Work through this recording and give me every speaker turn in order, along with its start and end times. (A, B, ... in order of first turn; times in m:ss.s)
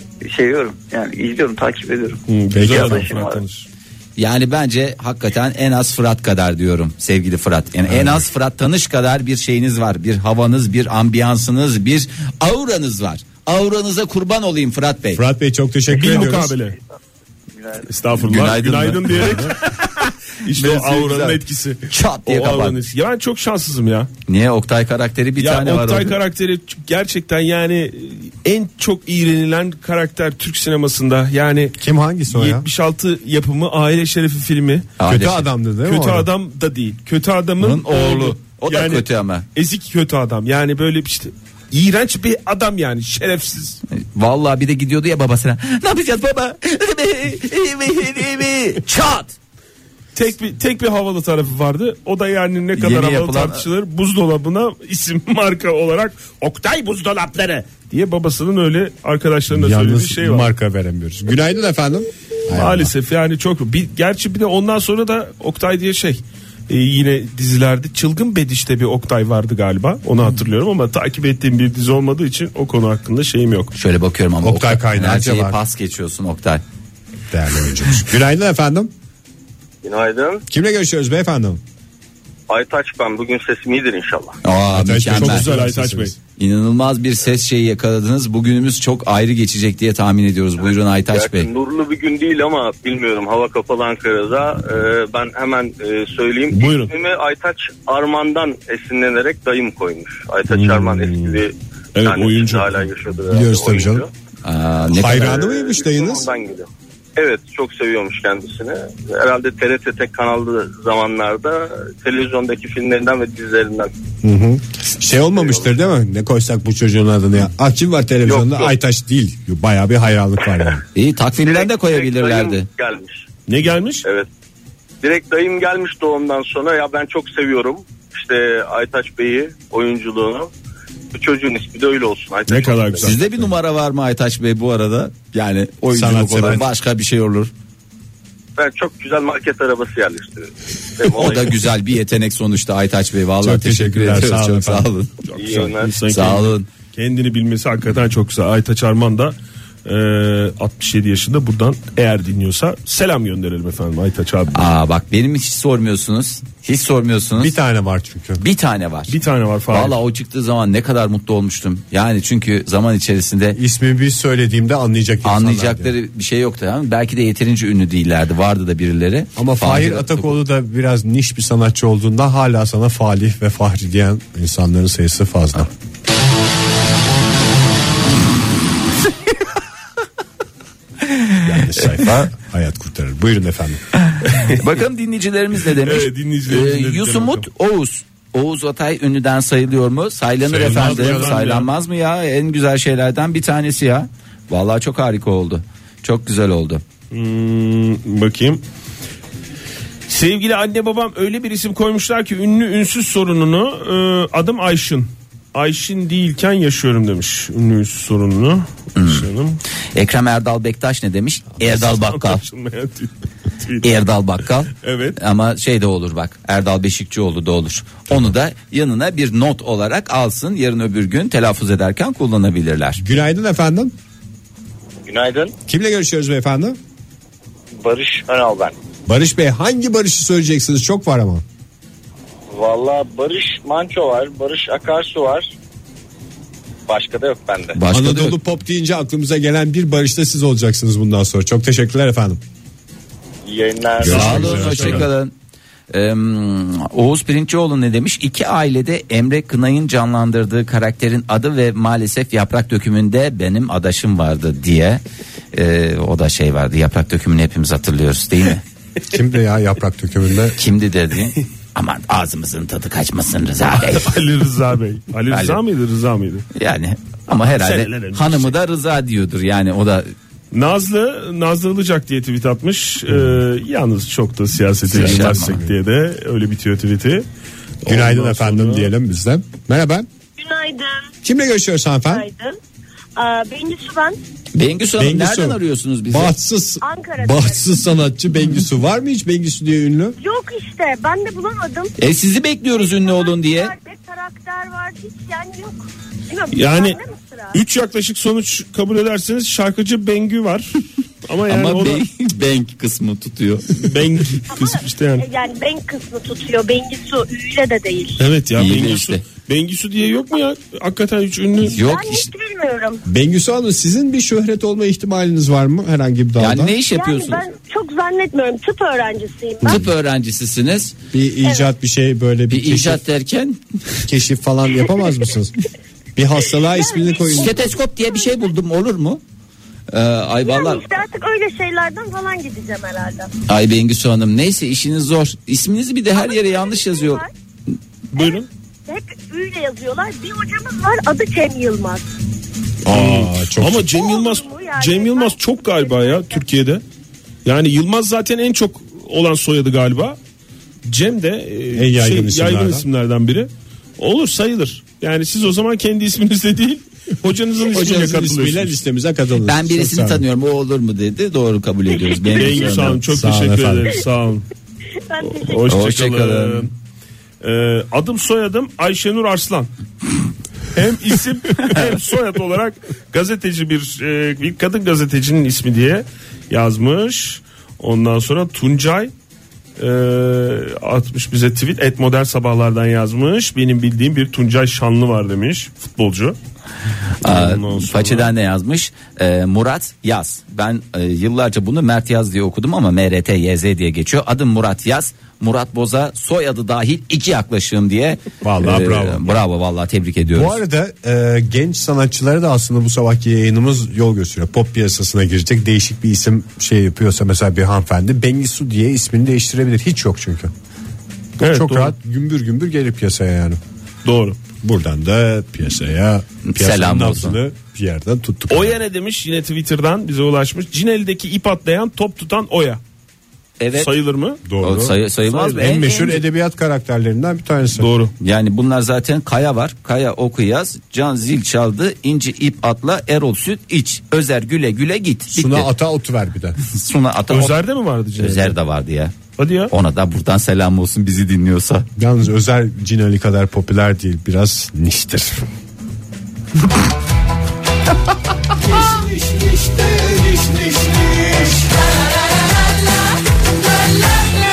0:00.2-0:03.4 A
0:02.3-0:03.6 B
0:02.5-0:03.1 C
0:04.2-0:15.2 D
0:07.9-0:08.2 C
0:15.1-0:16.6 C
0:15.9-0:16.8 B
0:17.8-0:19.9 B
0:18.2-0:19.4 D
0:19.2-0:19.5 C
0:20.4-0:24.1 B
0:20.5-0:22.8 D
0:24.3-0:26.1 D
0:25.4-0:31.8 B
0:31.8-0:32.6 C
0:32.3-0:34.9 B
0:35.0-0:35.5 D
0:35.0-0:36.3 C
0:35.8-0:43.8 B
0:37.6-0:39.4 D
0:43.9-0:49.3 D
0:50.1-1:00.5 B
0:52.8-0:53.6 D
0:59.5-1:02.9 C
1:02.5-1:13.7 B
1:13.7-1:16.6 D
1:14.4-1:15.6 C
1:17.3-1:18.9 C
1:19.8-1:20.4 E
1:20.5-1:21.6 C
1:22.5-1:24.4 E
1:24.4-1:25.5 D
1:24.7-1:26.1 C
1:25.1-1:26.1 B
1:26.4-1:31.5 D
1:30.6-1:44.1 E
1:36.5-1:36.9 B
1:40.5-1:41.4 B
1:41.9-1:42.9 B
1:43.3-1:44.0 C
1:44.4-1:45.4 D
1:44.9-1:46.3 C
1:45.0-1:53.9 E
1:54.2-2:00.8 C
1:55.4-1:55.8 E
1:58.2-1:58.7 E
2:00.9-2:02.7 D
2:01.4-2:03.2 E
2:03.5-2:04.0 B
2:05.0-2:10.5 E
2:11.1-2:13.2 E
2:12.5-2:13.2 B
2:13.0-2:17.5 D
2:15.9-2:16.7 C
2:18.6-2:21.6 E
2:21.1-2:25.1 D
2:23.4-2:24.9 C
2:25.2-2:34.7 B
2:25.4-2:25.9 E
2:26.1-2:26.7 D
2:34.5-2:37.5 D
2:37.4-2:38.4 C
2:38.4-2:39.2 D
2:39.1-2:40.0 B
2:39.7-2:43.6 D
2:43.5-2:45.9 C
2:45.2-2:50.4 D
2:49.4-2:55.7 C
3:01.4-3:03.8 C
3:01.8-3:02.3 D
3:04.1-3:16.8 D
3:04.3-3:04.6 B
3:05.7-3:07.5 B
3:10.4-3:11.4 C
3:10.5-3:11.7 B
3:17.1-3:18.6 B
3:20.1-3:29.6 B
3:29.0-3:29.3 D
3:29.9-3:32.4 D
3:31.6-3:34.0 B
3:33.8-3:43.0 D
3:34.7-3:35.2 B
3:43.0-3:43.9 C
3:45.1-3:45.5 E
3:45.7-3:46.8 C
3:47.8-3:48.7 E
3:49.1-3:51.4 C
3:52.5-3:55.5 E
3:56.9-3:57.8 E
3:57.7-3:58.4 D
3:57.9-4:02.4 C
4:03.5-4:04.7 E
4:04.0-4:05.1 C
4:04.0-4:05.3 D
4:04.0-4:05.0 B
4:05.9-4:15.0 D
4:15.5-4:18.6 D
4:19.1-4:20.6 C
4:20.6-4:24.2 D
4:23.8-4:26.5 B
4:25.3-4:25.6 D
4:26.5-4:30.1 D
4:27.5-4:28.5 B
4:30.5-4:37.2 B
4:33.1-4:33.4 C
4:34.9-4:35.7 C
4:34.9-4:35.6 D
4:37.8-4:38.9 B
4:37.8-4:40.1 C
4:40.4-4:41.1 F
4:41.2-4:42.2 C
4:42.1-4:42.6 F
4:43.2-4:44.2 F
4:44.5-4:46.3 D
4:45.0-4:50.2 C
4:46.8-4:47.9 F
4:50.2-4:51.9 F
4:52.0-4:53.7 D
4:52.7-4:57.6 F
4:56.5-4:57.0 B
4:57.5-5:02.0 B
5:01.5-5:03.6 D
5:03.8-5:05.2 B
5:04.5-5:08.2 F
5:08.2-5:11.8 B
5:08.6-5:09.2 D
5:11.6-5:12.3 D
5:11.7-5:13.0 F
5:13.1-5:16.8 C
5:16.4-5:17.4 D
5:16.9-5:19.9 F
5:19.6-5:20.9 D
5:21.1-5:23.0 C
5:21.4-5:21.7 F
5:22.5-5:23.6 D
5:24.0-5:25.5 C
5:26.2-5:27.5 C
5:26.6-5:28.5 F
5:27.3-5:29.2 D
5:29.9-5:30.8 D
5:30.4-5:33.3 F
5:33.5-5:37.2 D
5:36.1-5:37.3 F
5:38.1-5:38.5 B
5:38.2-5:42.1 F
5:42.8-5:43.9 C
5:42.9-5:46.8 B
5:43.8-5:46.4 F
5:47.4-5:50.2 B
5:50.8-5:58.8 B
5:51.7-5:52.8 C
5:57.7-6:00.2 C
5:59.4-6:03.0 D
6:02.0-6:02.5 F
6:02.3-6:04.4 B
6:02.9-6:03.9 C
6:05.1-6:05.7 F
6:05.3-6:06.7 B
6:05.7-6:06.7 D
6:07.4-6:09.7 B
6:10.7-6:19.1 B
6:19.8-6:26.4 B
6:27.2-6:40.6 D
6:27.2-6:28.3 B
6:38.4-6:39.4 C
6:40.3-6:50.5 C
6:51.4-6:51.9 B
6:51.4-6:53.6 C
6:54.0-6:54.4 B
6:54.6-6:58.8 C
6:56.4-6:57.4 D
6:58.5-7:02.8 B
7:03.6-7:03.9 D
7:03.7-7:04.4 B
7:04.4-7:05.0 C
7:04.6-7:06.2 D
7:05.3-7:05.8 B
7:05.5-7:07.9 C
7:07.8-7:08.1 B
7:08.2-7:15.7 D
7:15.3-7:16.6 C
7:16.6-7:17.6 D
7:17.3-7:18.5 B
7:18.2-7:19.2 D
7:19.4-7:19.7 B
7:19.7-7:21.8 D
7:22.0-7:25.4 C